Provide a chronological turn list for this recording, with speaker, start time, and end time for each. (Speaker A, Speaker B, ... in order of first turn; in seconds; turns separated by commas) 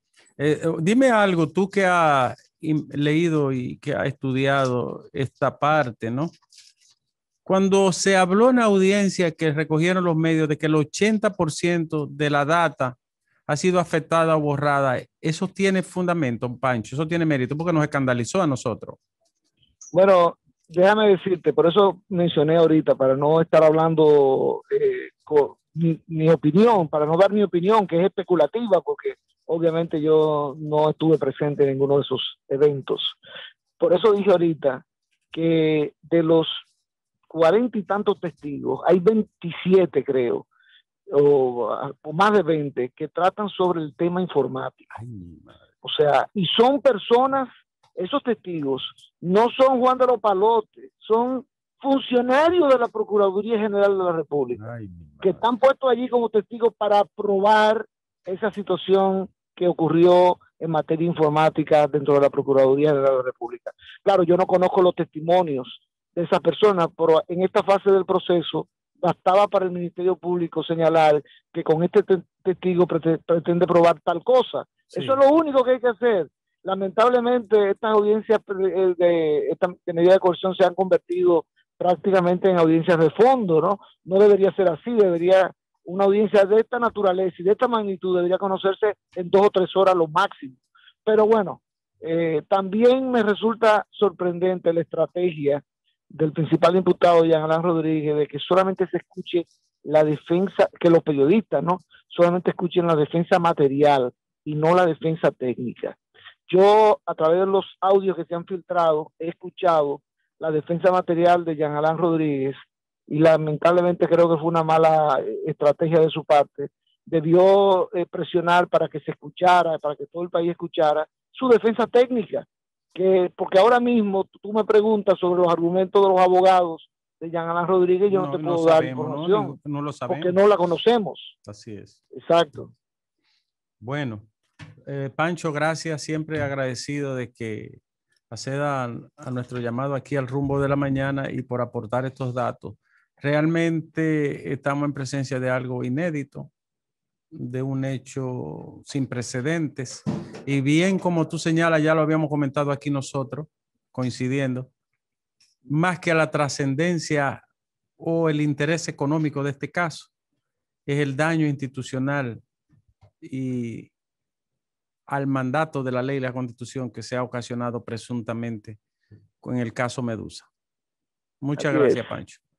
Speaker A: 0.4-6.3, Speaker A: 7.4-13.0, Speaker A: 13.5-19.0, Speaker B: 19.9-33.1, Speaker B: 33.8-36.6, Speaker B: 37.3-40.4, Speaker B: 41.1-44.9, Speaker A: 44.9-45.5, Speaker B: 45.8-54.6, Speaker A: 54.6-55.4, Speaker B: 55.2-106.0, Speaker B: 106.5-129.6, Speaker A: 128.1-130.3, Speaker B: 130.1-131.3, Speaker A: 131.4-131.9, Speaker B: 132.1-132.7, Speaker A: 133.8-134.3, Speaker A: 134.9-137.8, Speaker A: 138.3-146.5, Speaker A: 147.3-154.7, Speaker A: 155.7-157.4, Speaker A: 158.0-160.1, Speaker A: 160.9-162.4, Speaker A: 163.2-163.9, Speaker A: 165.1-168.8, Speaker A: 169.4-170.5, Speaker A: 171.4-172.4, Speaker B: 171.6-172.0